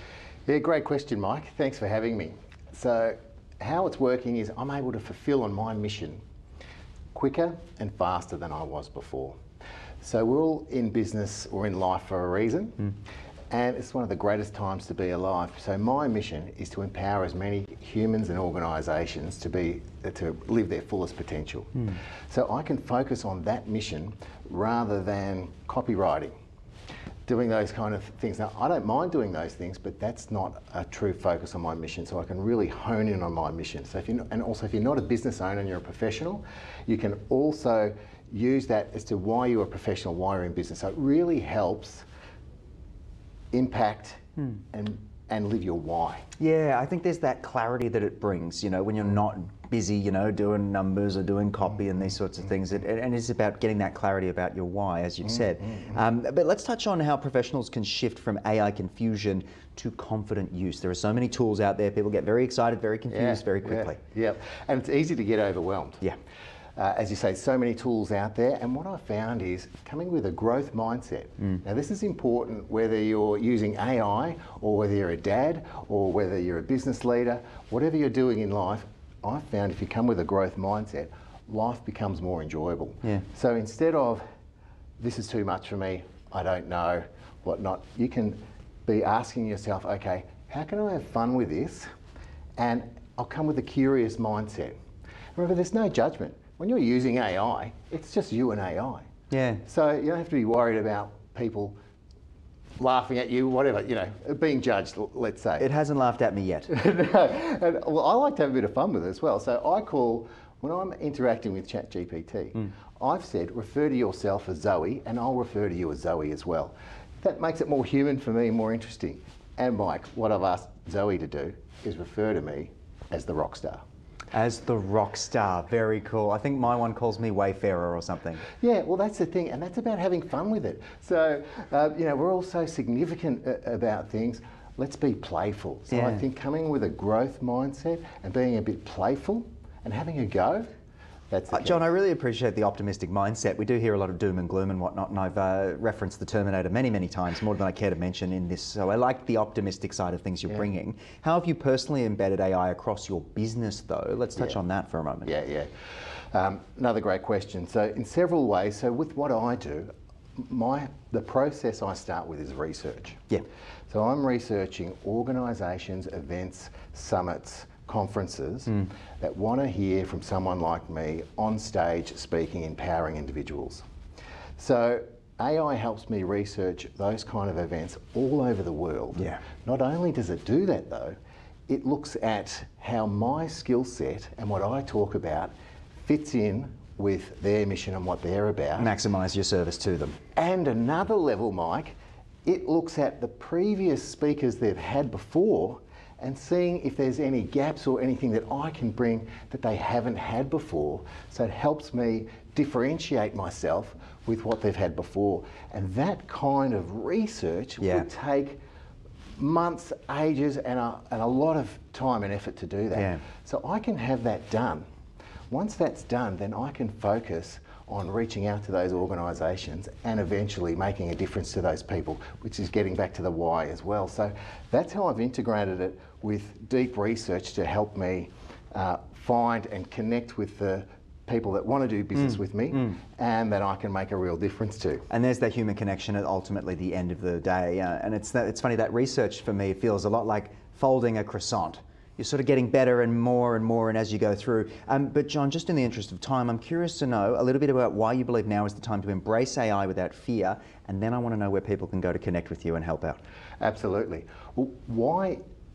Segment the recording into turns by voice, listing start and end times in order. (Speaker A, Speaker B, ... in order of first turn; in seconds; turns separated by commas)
Speaker A: 0.5-6.2, Speaker A: 7.1-9.4, Speaker A: 10.0-12.9, Speaker A: 13.5-26.3, Speaker A: 27.3-42.1, Speaker A: 43.5-46.2, Speaker B: 46.4-64.0, Speaker A: 55.6-56.0, Speaker A: 63.1-66.0, Speaker A: 66.8-84.2, Speaker A: 85.0-91.9, Speaker A: 92.6-94.8, Speaker A: 95.3-99.1, Speaker B: 99.3-99.6, Speaker A: 99.7-101.8, Speaker A: 102.8-105.7, Speaker B: 105.6-106.7, Speaker A: 106.7-123.8, Speaker B: 124.3-128.5, Speaker A: 128.6-140.7, Speaker B: 135.9-136.2, Speaker A: 141.3-141.9, Speaker B: 141.5-155.3, Speaker A: 155.2-155.7, Speaker A: 156.3-163.2, Speaker A: 163.9-173.8, Speaker A: 174.6-181.2, Speaker A: 181.7-185.5, Speaker A: 186.0-188.9, Speaker B: 188.8-190.2, Speaker A: 190.3-208.6, Speaker B: 207.8-208.1, Speaker A: 209.4-214.9, Speaker B: 212.9-213.2, Speaker A: 215.5-235.1, Speaker B: 235.1-253.2, Speaker A: 253.6-255.4